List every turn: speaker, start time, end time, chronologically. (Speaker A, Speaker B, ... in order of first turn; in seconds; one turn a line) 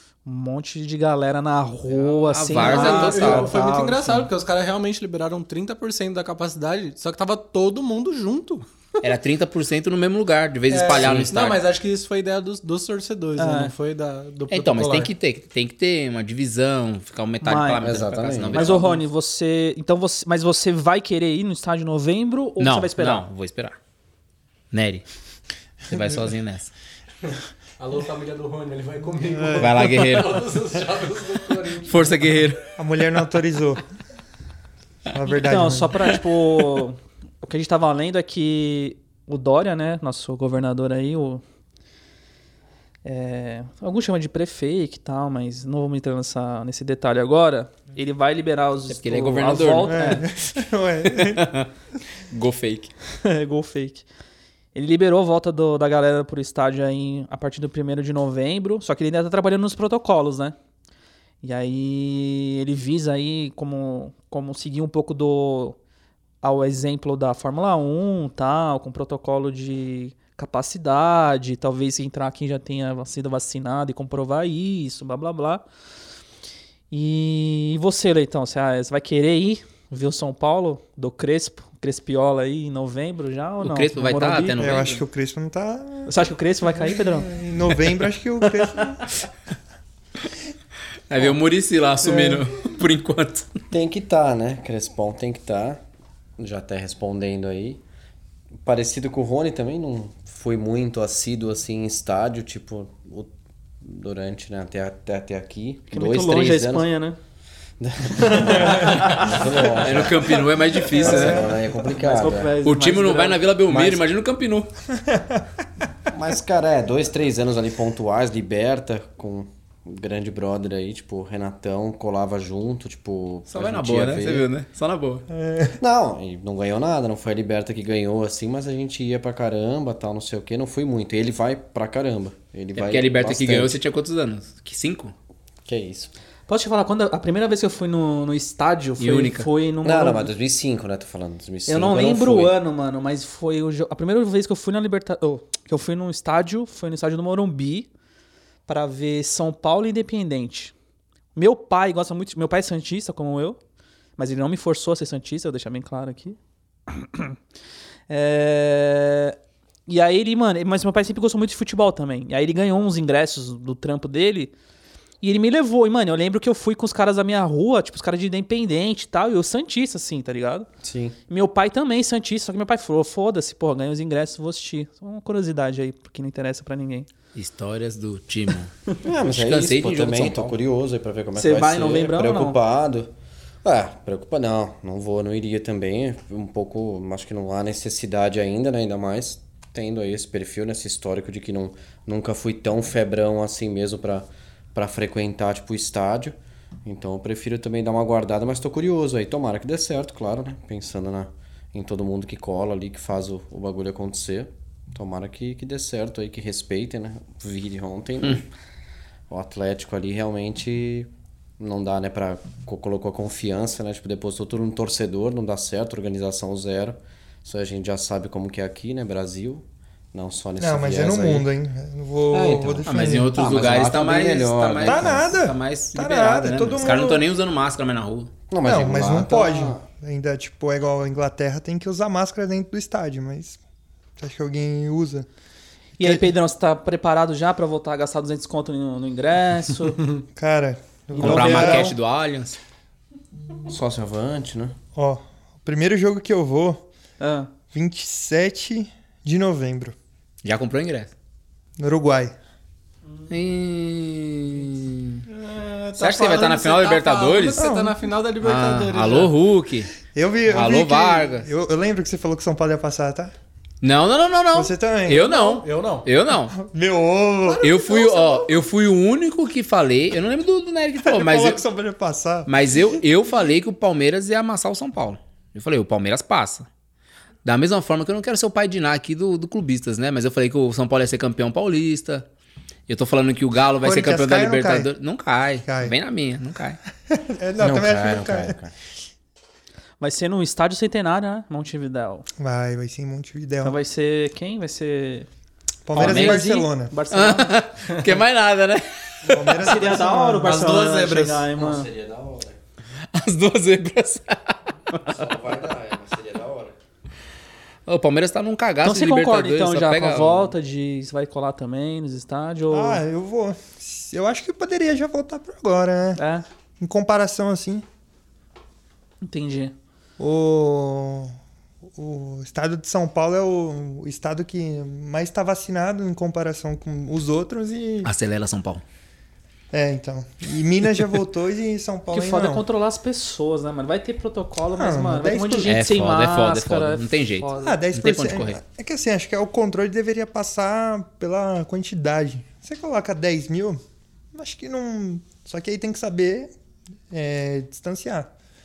Speaker A: 0.2-4.3
Speaker B: 2.0-3.5
Speaker C: 2.5-9.0
Speaker B: 9.0-11.6
Speaker C: 10.7-15.1
Speaker A: 13.4-13.7
Speaker B: 14.5-19.0
Speaker A: 17.4-17.9
Speaker D: 17.8-18.8
Speaker A: 18.5-23.2
Speaker B: 22.6-23.8
Speaker B: 24.7-25.0
Speaker B: 25.9-26.7
Speaker C: 27.2-32.1
Speaker E: 29.3-29.9
Speaker B: 29.6-30.4
Speaker B: 31.8-32.6
Speaker E: 32.8-33.8
Speaker E: 35.1-36.1
Speaker A: 35.3-41.4
Speaker A: 43.0-50.2
Speaker B: 48.9-50.2
Speaker E: 49.9-51.5
Speaker B: 51.1-51.7
Speaker B: 52.3-52.9
Speaker A: 53.2-54.0
Speaker A: 54.7-60.5
Speaker A: 61.4-65.8
Speaker A: 66.4-75.6
Speaker A: 76.9-84.8
Speaker B: 83.6-85.0
Speaker E: 84.6-89.1
Speaker A: 86.0-87.3
Speaker B: 91.1-93.5
Speaker D: 93.7-95.8
Speaker D: 96.4-97.8
Speaker D: 98.6-106.9
Speaker A: 105.9-107.2
Speaker D: 107.8-110.4
Speaker A: 108.2-109.5
Speaker B: 109.8-111.4
Speaker A: 110.9-113.4
Speaker D: 110.9-112.6
Speaker E: 111.0-111.3
Speaker B: 112.6-114.7
Speaker D: 113.7-114.0
Speaker E: 115.1-115.4
Speaker D: 116.1-124.5
Speaker B: 123.5-125.2
Speaker E: 125.3-125.8
Speaker D: 125.8-133.8
Speaker B: 132.8-135.1
Speaker D: 135.7-136.1
Speaker A: 136.5-140.3
Speaker B: 139.0-139.5
Speaker D: 139.8-142.5
Speaker A: 141.7-147.9
Speaker A: 148.7-150.7
Speaker A: 151.3-153.6
Speaker A: 154.2-156.4
Speaker A: 156.9-157.3
Speaker A: 158.1-164.5
Speaker A: 165.2-170.7
Speaker D: 170.8-171.2
Speaker A: 171.3-177.1
Speaker B: 177.3-178.7
Speaker D: 179.0-183.1
Speaker B: 179.3-180.6
Speaker A: 181.3-182.6
Speaker D: 183.6-208.5
Speaker D: 209.3-221.5
Speaker E: 220.6-223.3
Speaker D: 222.3-225.3
Speaker B: 222.8-228.3
Speaker E: 224.8-227.2
Speaker D: 228.5-229.8
Speaker E: 228.6-233.6
Speaker E: 234.2-235.3
Speaker A: 236.0-240.0
Speaker E: 236.0-236.2
Speaker E: 240.3-241.9
Speaker A: 241.1-241.9
Speaker B: 241.2-242.6
Speaker D: 243.7-244.8
Speaker E: 244.9-246.8
Speaker A: 247.2-247.5
Speaker E: 247.7-249.9
Speaker B: 250.4-251.1
Speaker E: 251.8-252.3
Speaker B: 253.3-255.2
Speaker C: 255.3-259.3
Speaker B: 256.0-257.6
Speaker E: 257.6-258.0
Speaker B: 258.4-259.9
Speaker E: 260.1-263.3
Speaker B: 260.5-261.5
Speaker B: 263.8-266.6
Speaker E: 264.5-265.4
Speaker C: 265.4-266.1
Speaker E: 266.5-267.7
Speaker C: 267.4-268.5
Speaker B: 267.6-271.6
Speaker E: 271.0-272.5
Speaker B: 272.4-276.7
Speaker B: 277.4-282.2
Speaker B: 282.9-286.8
Speaker E: 283.8-284.9
Speaker E: 285.6-285.9
Speaker E: 287.1-288.5
Speaker D: 287.6-288.7
Speaker A: 290.0-292.2
Speaker E: 292.4-293.8
Speaker A: 293.6-295.3
Speaker E: 295.9-296.9
Speaker A: 295.9-297.6
Speaker B: 295.9-296.5
Speaker B: 297.1-299.6
Speaker E: 299.2-300.7
Speaker A: 299.6-301.9
Speaker C: 300.4-301.5
Speaker D: 301.5-302.6
Speaker B: 303.1-304.6
Speaker D: 305.1-306.7
Speaker B: 307.9-310.5
Speaker A: 308.8-313.0
Speaker E: 312.7-316.2
Speaker A: 316.2-316.4
Speaker E: 316.8-317.8
Speaker A: 319.2-319.7
Speaker E: 320.2-321.3
Speaker E: 321.9-328.1
Speaker B: 328.0-328.8
Speaker E: 329.7-332.6
Speaker A: 332.1-337.8
Speaker E: 334.8-335.7
Speaker B: 335.6-338.6
Speaker E: 337.6-343.8
Speaker E: 344.3-346.5
Speaker E: 347.1-348.3